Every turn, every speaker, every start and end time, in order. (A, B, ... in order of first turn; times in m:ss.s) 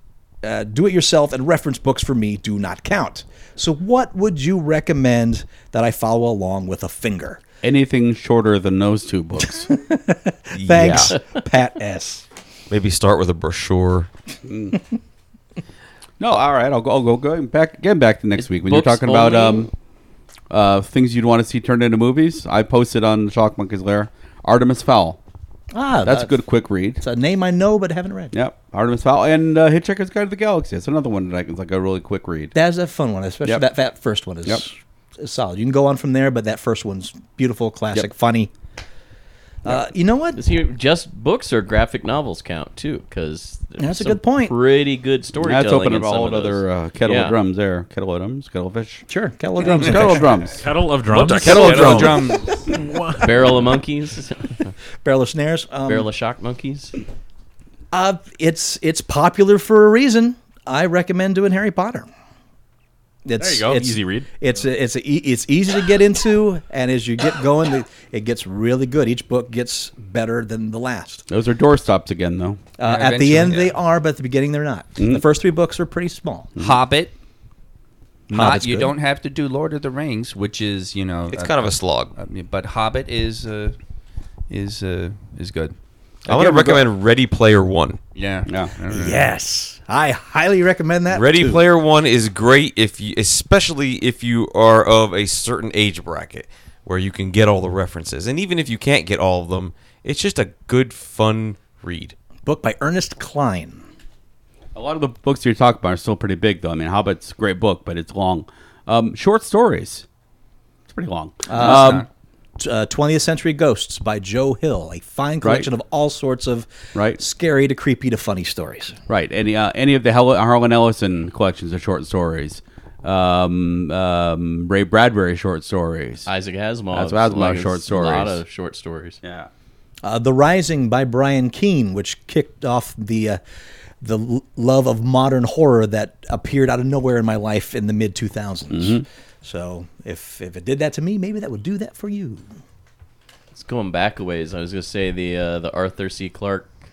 0:00.4-0:07.4 A
0:07.6-0:09.7 B
0:09.6-0:12.2 A
0:10.6-0:11.2 C
0:12.7-0:14.1 C
0:14.5-0:14.8 B
0:16.2-0:19.7 B
0:18.4-0:19.7 D
0:20.5-0:25.2 B
0:25.7-0:26.4 A
0:26.0-0:27.0 B
0:27.0-0:28.3 A
0:28.3-0:32.5 B
0:32.5-0:38.5 A
0:39.6-0:40.4 A
0:40.4-0:47.4 D
0:43.8-0:44.6 A
0:45.4-0:49.0 B
0:49.1-0:50.4 A
0:49.6-0:50.6 B
0:50.5-0:53.6 E
0:51.1-0:52.4 C
0:51.4-0:52.6 F
0:53.2-0:54.7 D
0:55.0-0:56.1 A
0:55.9-0:57.0 D
0:57.9-1:02.1 A
1:03.2-1:11.2 A
1:03.4-1:04.3 E
1:11.3-1:12.6 B
1:12.8-1:16.5 A
1:12.8-1:13.7 F
1:15.0-1:15.2 B
1:16.6-1:17.1 F
1:18.3-1:23.8 F
1:18.3-1:18.9 A
1:21.3-1:22.1 C
1:24.5-1:25.8 F
1:26.3-1:28.0 C
1:26.3-1:26.8 B
1:28.2-1:29.2 F
1:28.5-1:28.7 B
1:28.9-1:31.6 A
1:31.1-1:42.2 C
1:42.4-1:43.8 A
1:44.8-1:50.0 B
1:50.9-1:52.1 B
1:51.5-1:52.0 A
1:51.5-1:52.1 F
1:52.6-1:59.0 A
1:55.4-1:55.7 B
1:57.0-1:57.2 B
1:59.1-2:06.3 B
2:06.3-2:09.2 D
2:06.9-2:08.4 B
2:09.2-2:09.5 B
2:10.0-2:13.4 A
2:14.0-2:22.5 A
2:18.7-2:19.0 B
2:23.6-2:26.7 D